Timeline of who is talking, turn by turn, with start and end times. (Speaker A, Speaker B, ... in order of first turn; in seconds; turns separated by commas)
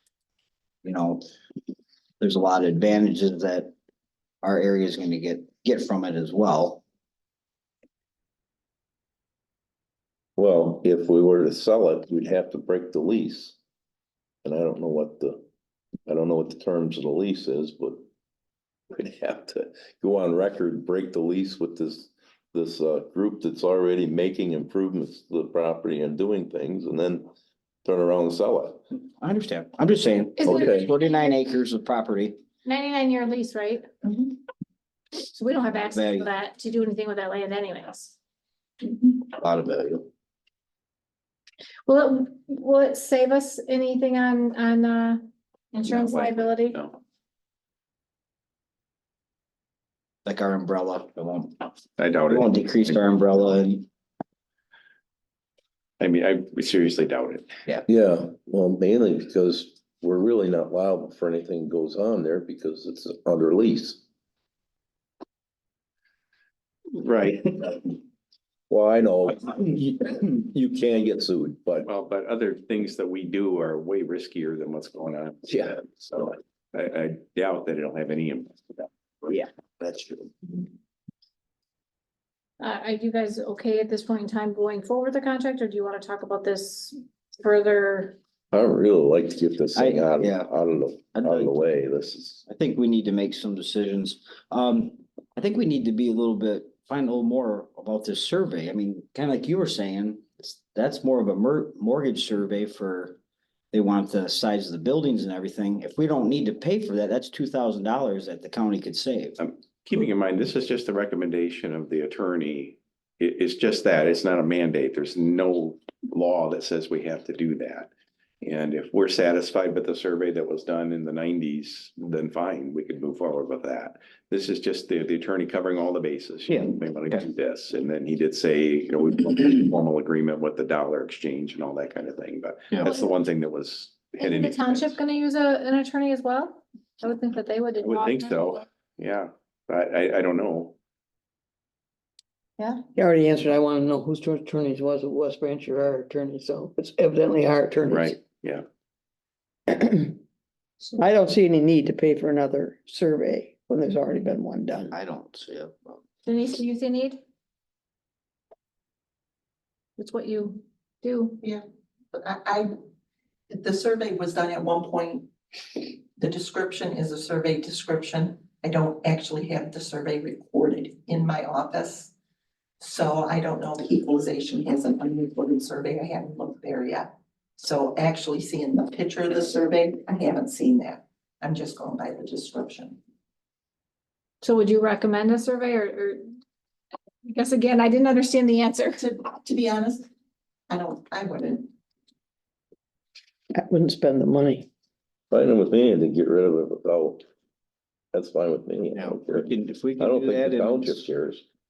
Speaker A: 0.8-1.2, Speaker A: 2.2-3.7, Speaker A: 4.4-6.8, Speaker B: 10.4-13.6, Speaker B: 14.4-15.4, Speaker B: 16.1-18.0, Speaker B: 18.9-27.3, Speaker B: 27.8-28.8, Speaker A: 29.1-32.4, Speaker C: 30.4-30.7, Speaker B: 30.4-30.9, Speaker C: 32.6-33.9, Speaker C: 35.2-38.1, Speaker A: 35.7-36.3, Speaker A: 39.3-40.1, Speaker C: 41.9-45.2, Speaker C: 45.7-46.8, Speaker D: 45.9-46.9, Speaker A: 50.2-51.7, Speaker D: 52.0-53.1, Speaker A: 52.3-53.9, Speaker D: 56.0-57.5, Speaker B: 57.9-64.0, Speaker D: 66.9-67.9, Speaker B: 68.7-71.9, Speaker D: 71.8-79.4, Speaker B: 75.5-75.9, Speaker A: 79.3-80.3, Speaker C: 82.6-88.2, Speaker B: 88.5-92.4, Speaker A: 89.7-90.5, Speaker A: 91.1-91.6, Speaker A: 92.5-103.2, Speaker A: 103.7-109.4, Speaker D: 109.4-117.9, Speaker D: 118.4-135.0, Speaker A: 126.5-127.3, Speaker C: 132.8-133.1, Speaker C: 134.2-138.6, Speaker D: 137.8-140.8, Speaker E: 142.9-148.2, Speaker D: 147.9-148.6, Speaker E: 149.7-150.2, Speaker E: 150.9-154.9, Speaker A: 154.9-156.0, Speaker C: 156.2-157.2, Speaker C: 160.0-161.4, Speaker F: 162.1-162.7, Speaker F: 163.5-165.3, Speaker F: 166.2-172.1, Speaker F: 172.8-183.0, Speaker C: 184.4-186.2, Speaker C: 187.2-189.0, Speaker F: 188.9-190.1, Speaker F: 190.7-191.7, Speaker E: 193.6-194.7, Speaker B: 195.3-197.2, Speaker B: 198.1-201.4, Speaker A: 198.9-201.1